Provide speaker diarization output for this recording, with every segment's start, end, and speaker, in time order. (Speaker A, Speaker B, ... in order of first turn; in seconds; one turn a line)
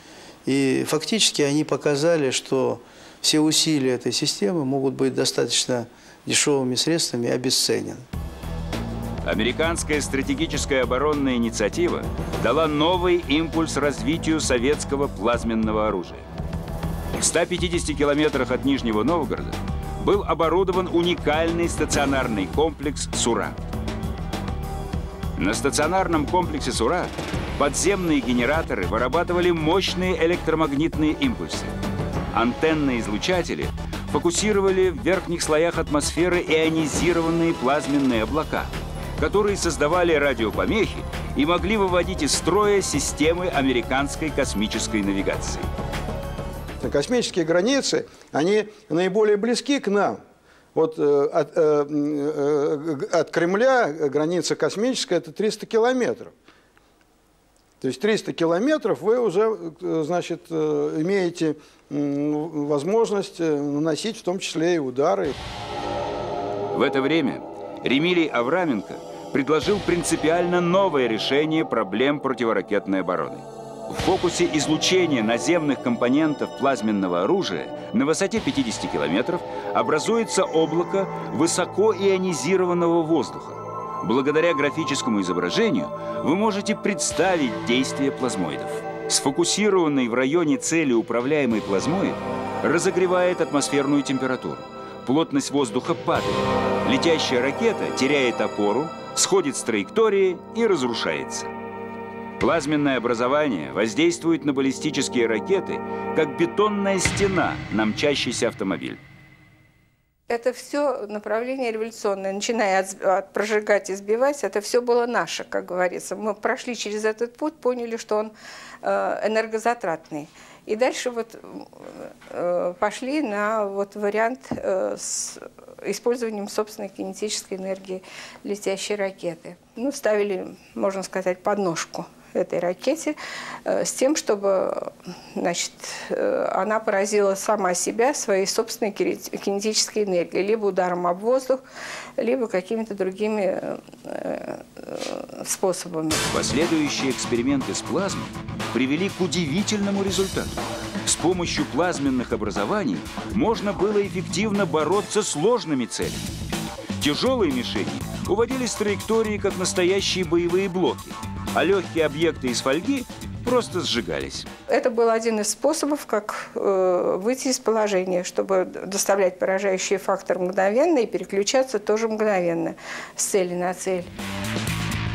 Speaker A: 0.5-8.1
Speaker B: 9.2-16.2
Speaker B: 17.2-23.6
Speaker B: 25.4-31.7
Speaker B: 32.3-45.7
Speaker C: 46.8-50.2
Speaker C: 50.8-56.3
Speaker C: 57.8-65.3
Speaker B: 66.7-101.5
Speaker B: 102.4-109.0
Speaker D: 110.3-118.3
Speaker D: 118.8-141.6
Speaker D: 142.2-146.2
Speaker B: 146.3-156.3
Speaker B: 157.0-164.5
Speaker D: 164.7-174.1